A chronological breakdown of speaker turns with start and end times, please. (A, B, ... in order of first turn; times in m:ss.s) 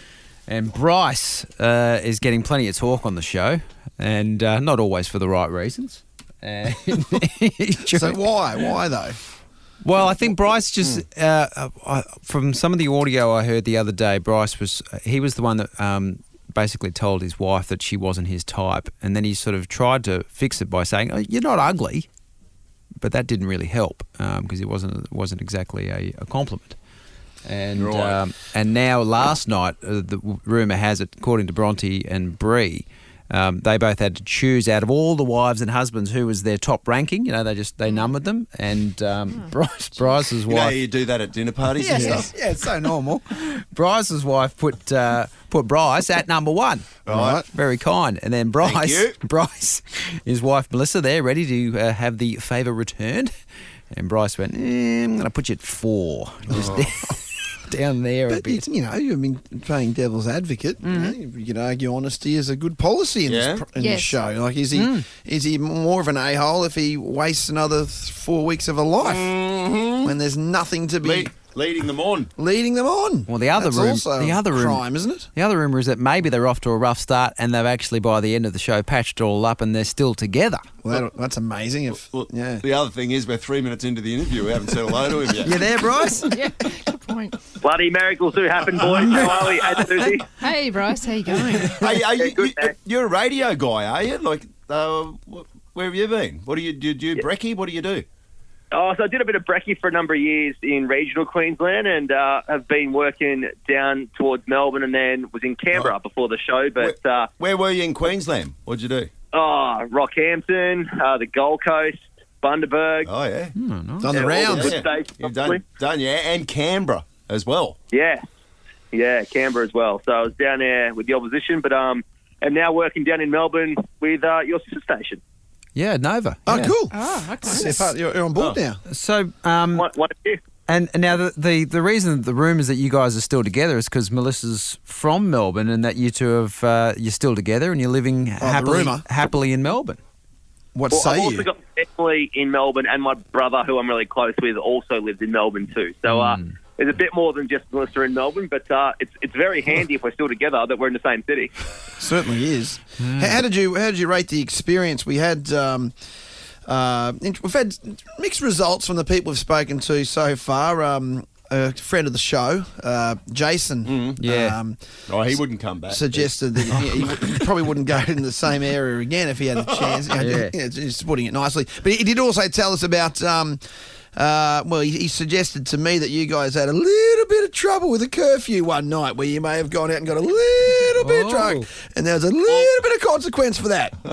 0:00.5-0:08.2 A
0:07.9-0:09.2 B
0:09.8-0:22.1 A
0:23.0-0:26.8 A
0:27.4-0:40.8 A
0:27.8-0:28.2 C
0:40.5-0:42.3 C
0:41.8-0:53.3 A
0:41.9-0:42.3 B
0:47.1-0:47.4 C
0:47.1-0:47.5 B
0:48.6-0:49.2 C
0:53.9-0:58.6 A
0:56.5-0:56.9 C
0:58.3-1:09.3 B
1:00.8-1:01.2 A
1:03.3-1:03.6 C
1:03.8-1:04.2 D
1:04.7-1:05.0 A
1:09.0-1:10.1 C
1:10.0-1:11.3 B
1:11.0-1:12.3 C
1:12.4-1:15.3 B
1:13.3-1:20.6 A
1:20.8-1:22.7 B
1:22.0-1:25.6 C
1:25.4-1:26.3 A
1:26.2-1:27.5 D
1:27.6-1:30.3 E
1:30.4-1:31.9 D
1:31.7-1:38.0 C
1:32.2-1:32.7 E
1:38.7-1:47.3 E
1:46.8-1:49.1 C
1:49.3-1:53.1 E
1:53.0-1:53.5 C
1:53.6-1:54.1 A
1:54.0-1:54.8 B
1:54.1-1:55.6 E
1:54.4-1:57.8 C
1:57.9-1:58.2 E
1:58.9-2:05.2 E
2:05.8-2:06.8 A
2:06.5-2:08.8 B
2:06.9-2:07.9 D
2:08.9-2:09.9 A
2:09.8-2:10.4 E
2:10.7-2:20.0 A
2:18.4-2:19.0 B
2:20.7-2:21.5 B
2:20.9-2:31.5 E
2:26.1-2:26.5 A
2:32.0-2:36.0 B
2:33.0-2:33.4 A
2:36.7-2:45.4 B
2:43.9-2:44.2 C
2:44.2-2:44.6 A
2:45.1-2:46.4 C
2:45.9-2:53.6 B
2:49.8-2:50.0 C
2:50.2-2:50.5 A
2:54.2-3:04.0 B
3:01.0-3:01.7 A